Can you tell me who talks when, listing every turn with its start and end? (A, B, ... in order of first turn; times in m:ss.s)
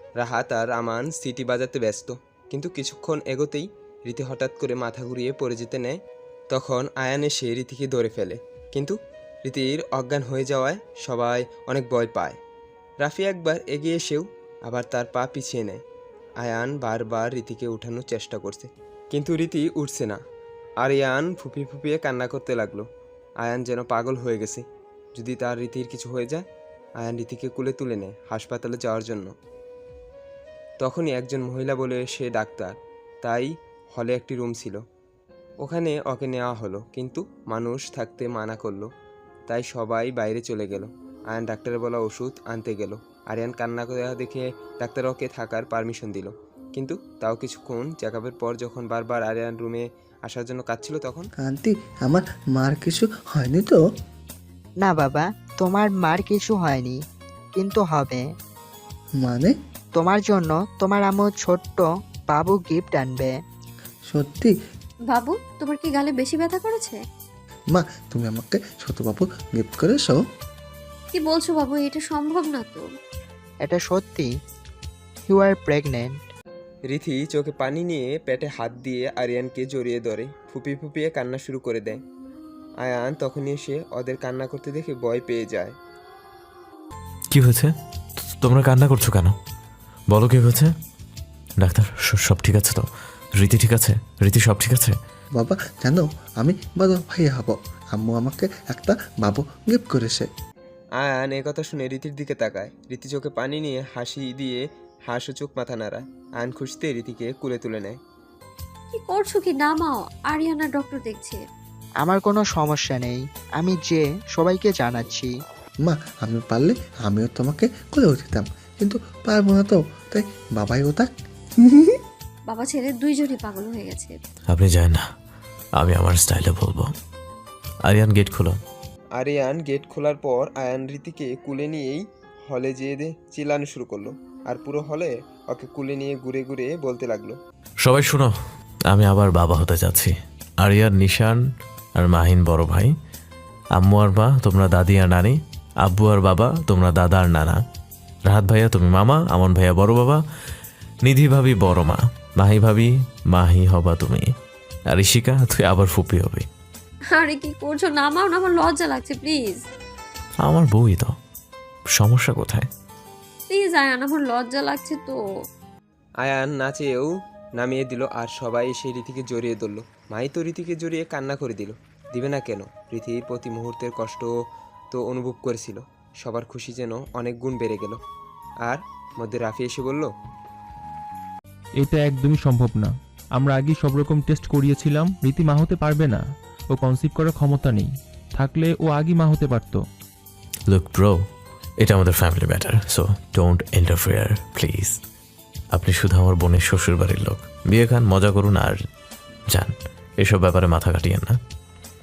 0:00.2-0:06.0 A
0:06.5-0:12.4 A
0:13.0-0:15.8 A
0:16.4-0:20.2 A
0:20.8-0:22.8 A
0:23.4-0:26.4 A
0:27.0-0:29.3 A
0:30.8-0:34.8 A
0:35.6-0:38.9 A
0:39.5-0:51.3 A
0:51.4-0:53.8 B
0:54.8-0:57.0 C
0:57.5-0:58.2 C
0:59.2-0:59.5 B
1:00.0-1:03.3 C
1:04.1-1:04.5 B
1:05.1-1:07.0 D
1:07.7-1:10.2 B
1:11.1-1:12.8 D
1:13.6-1:14.3 C
1:15.3-1:16.3 C
1:16.9-1:22.0 A
1:22.8-1:25.7 A
1:27.3-1:27.7 E
1:28.3-1:29.3 E
1:30.1-1:30.7 E
1:31.6-1:32.8 E
1:33.4-1:35.0 E
1:35.4-1:40.3 B
1:41.0-1:48.0 A
1:48.9-1:51.4 D
1:52.0-1:55.3 C
1:55.8-2:01.1 B
2:01.6-2:02.0 B
2:02.5-2:04.2 D
2:04.5-2:05.1 E
2:05.8-2:06.9 E
2:07.8-2:08.6 E
2:09.2-2:17.4 A
2:17.8-2:18.3 E
2:18.9-2:21.4 E
2:22.0-2:22.9 E
2:23.7-2:27.6 E
2:28.3-2:30.2 E
2:31.0-2:34.3 E
2:34.9-2:36.5 E
2:37.1-2:39.6 D
2:40.4-2:41.1 E
2:42.0-2:42.7 E
2:43.5-2:45.2 D
2:46.2-2:54.3 A
2:54.9-2:58.0 A
2:58.6-3:00.1 A
3:01.8-3:06.2 F
3:06.7-3:09.8 F
3:10.7-3:11.2 E
3:11.8-3:15.0 E
3:15.7-3:18.8 E
3:19.5-3:21.4 E